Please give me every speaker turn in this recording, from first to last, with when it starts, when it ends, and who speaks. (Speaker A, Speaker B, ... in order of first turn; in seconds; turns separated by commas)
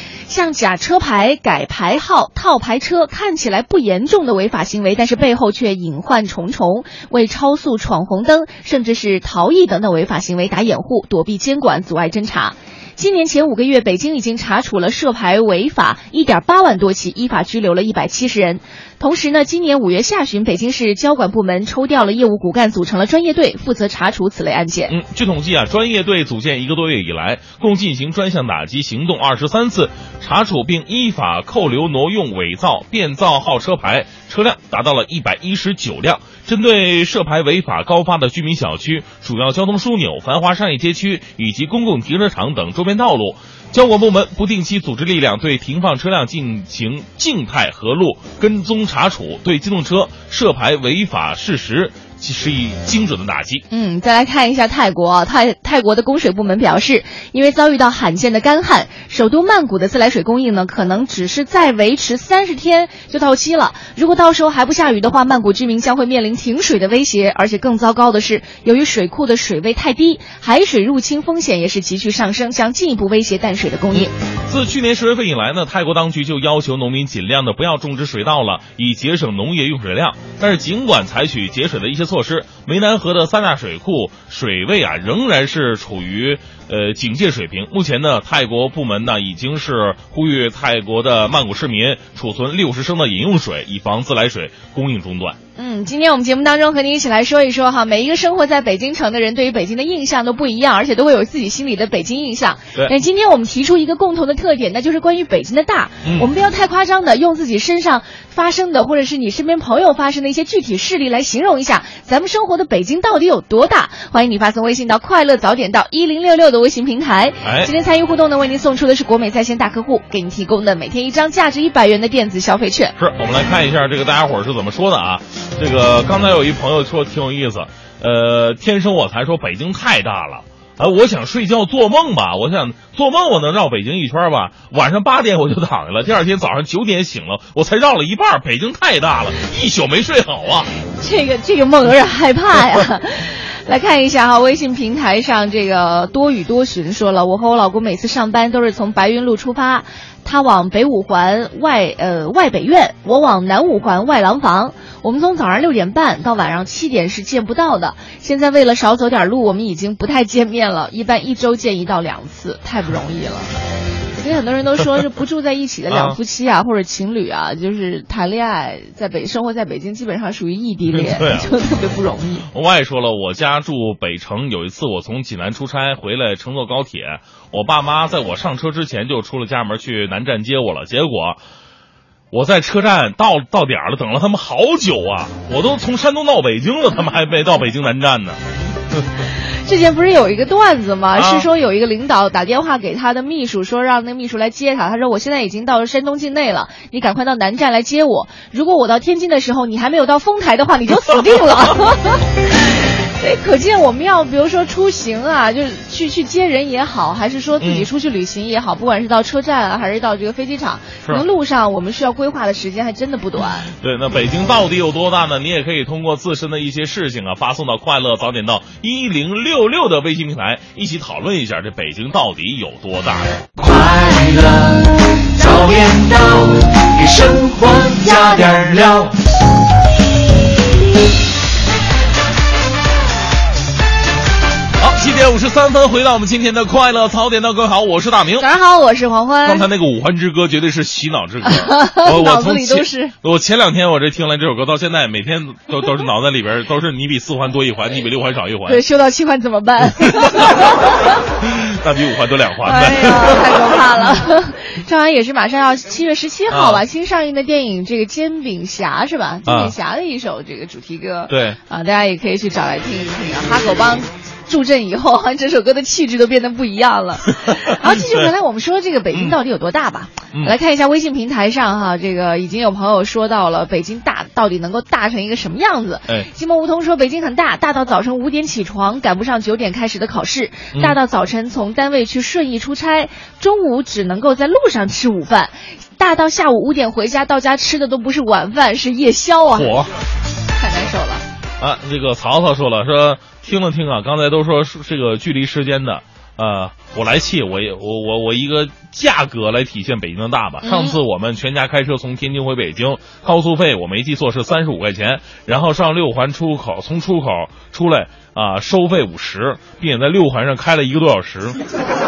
Speaker A: 0.3-24.9, Speaker B: 24.9-53.6, Speaker A: 53.7-74.1, Speaker B: 73.9-95.4, Speaker A: 95.6-122.9, Speaker B: 106.0-106.3, Speaker B: 117.4-117.7, Speaker B: 123.0-140.7, Speaker A: 141.0-163.5, Speaker A: 164.2-172.4, Speaker B: 165.9-166.2, Speaker B: 170.9-171.5, Speaker B: 172.5-181.4, Speaker B: 182.3-188.4, Speaker A: 189.6-202.2, Speaker B: 191.1-191.5, Speaker A: 203.2-213.7, Speaker B: 207.6-207.9, Speaker B: 213.8-223.3, Speaker C: 223.6-229.1, Speaker B: 234.8-238.5, Speaker A: 238.4-239.7, Speaker B: 239.4-248.8, Speaker A: 241.4-243.1, Speaker A: 248.7-251.1, Speaker B: 250.2-250.6, Speaker B: 251.4-253.8, Speaker A: 252.6-289.8, Speaker B: 256.5-256.8, Speaker B: 259.4-259.7, Speaker B: 261.3-261.6, Speaker B: 267.4-268.3, Speaker B: 289.5-289.9, Speaker A: 290.6-291.2, Speaker B: 291.6-311.6, Speaker A: 300.6-301.0